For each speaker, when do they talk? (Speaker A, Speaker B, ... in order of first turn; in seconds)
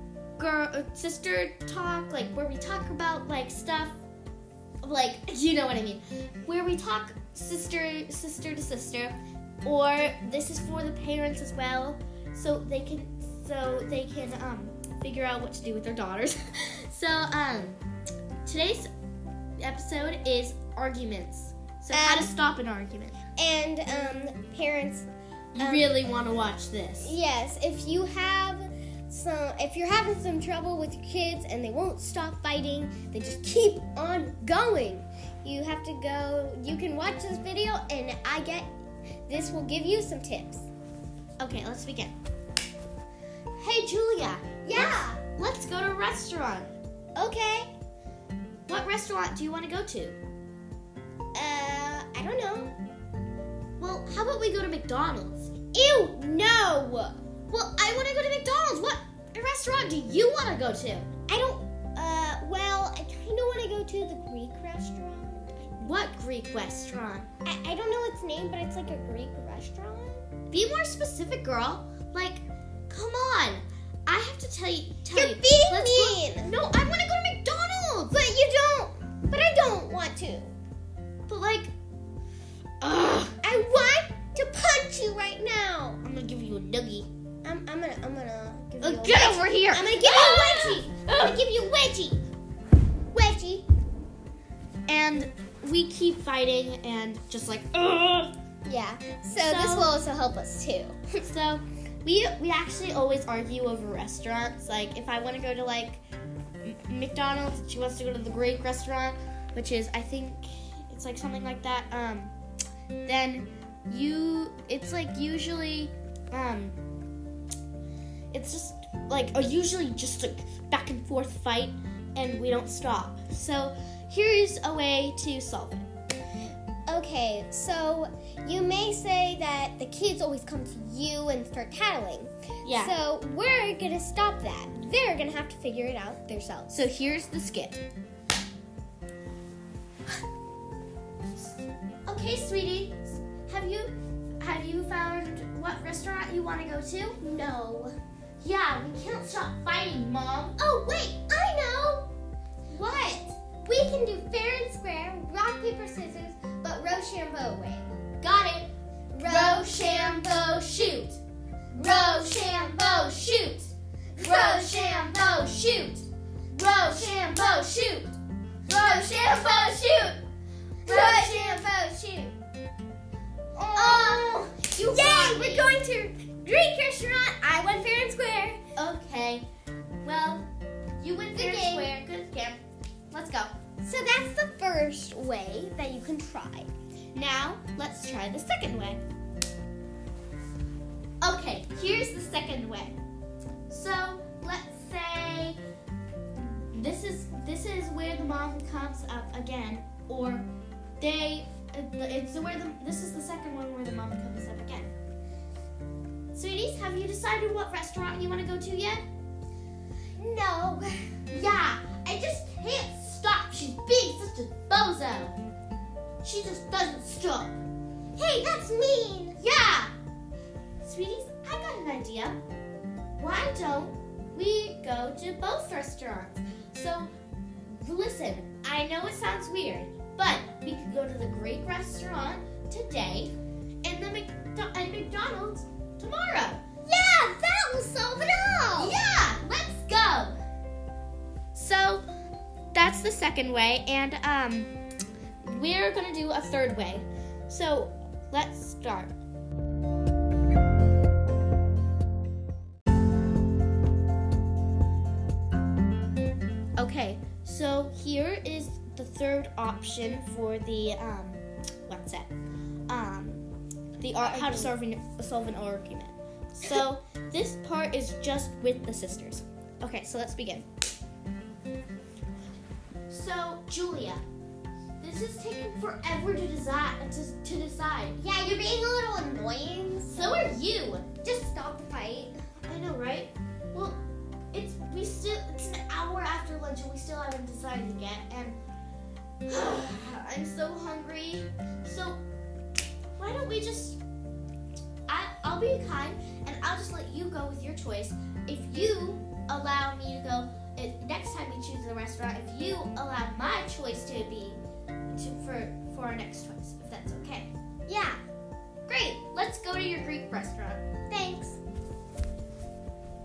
Speaker A: 0.4-4.0, 4.8-17.8, 18.4-18.9, 19.6-23.2, 25.5-27.2, 41.4-42.1, 43.6-46.7, 48.7-50.2, 53.8-55.5, 57.5-61.1, 65.8-67.3, 70.5-78.3, 81.3-81.7, 82.8-83.3, 86.0-87.1, 88.8-91.4, 94.9-98.3, 99.3-99.9, 101.2-106.0, 106.6-112.3, 113.0-116.8, 118.3-125.9, 132.6-132.9, 136.7-137.8, 142.1-147.2, 148.4-150.6, 159.2-161.2, 161.7-168.1, 168.7-170.2, 170.8-171.6, 173.7-175.8, 178.8-179.5, 180.0-180.5, 181.0-183.5, 187.1-189.0, 191.2-193.0, 193.7-195.6, 196.4-200.4, 201.0-204.9, 206.3-209.0, 211.3-215.4, 216.2-217.6, 219.4-219.9, 220.8-222.4, 223.2-227.1, 227.7-236.6, 238.8-240.4, 241.5-242.0, 242.7-244.7, 245.4-249.1, 256.8-262.3, 262.9-263.4, 264.0-270.6, 273.1-274.2, 275.0-278.2, 280.1-281.1, 282.7-284.0, 284.5-288.6, 289.5-292.2, 293.2-294.0, 295.1-307.5, 308.9-310.8
Speaker B: 21.9-22.3, 23.4-25.9, 27.0-38.7, 39.3-40.7, 44.6-45.2, 47.1-47.7, 51.3-52.7, 55.7-57.2, 61.3-65.9, 67.4-70.3, 75.1-76.5, 78.1-80.5, 83.4-86.0, 87.4-92.2, 93.1-93.7, 98.6-101.2, 126.8-136.8, 147.2-148.0, 150.6-152.1, 152.7-160.4, 161.8-163.3, 164.2-165.0, 170.8-172.3, 173.5-178.6, 181.3-181.9, 183.8-186.7, 210.2-211.2, 218.2-219.4, 236.8-238.9, 264.2-264.7, 278.2-280.3, 281.2-282.3, 307.9-308.2, 311.1-311.6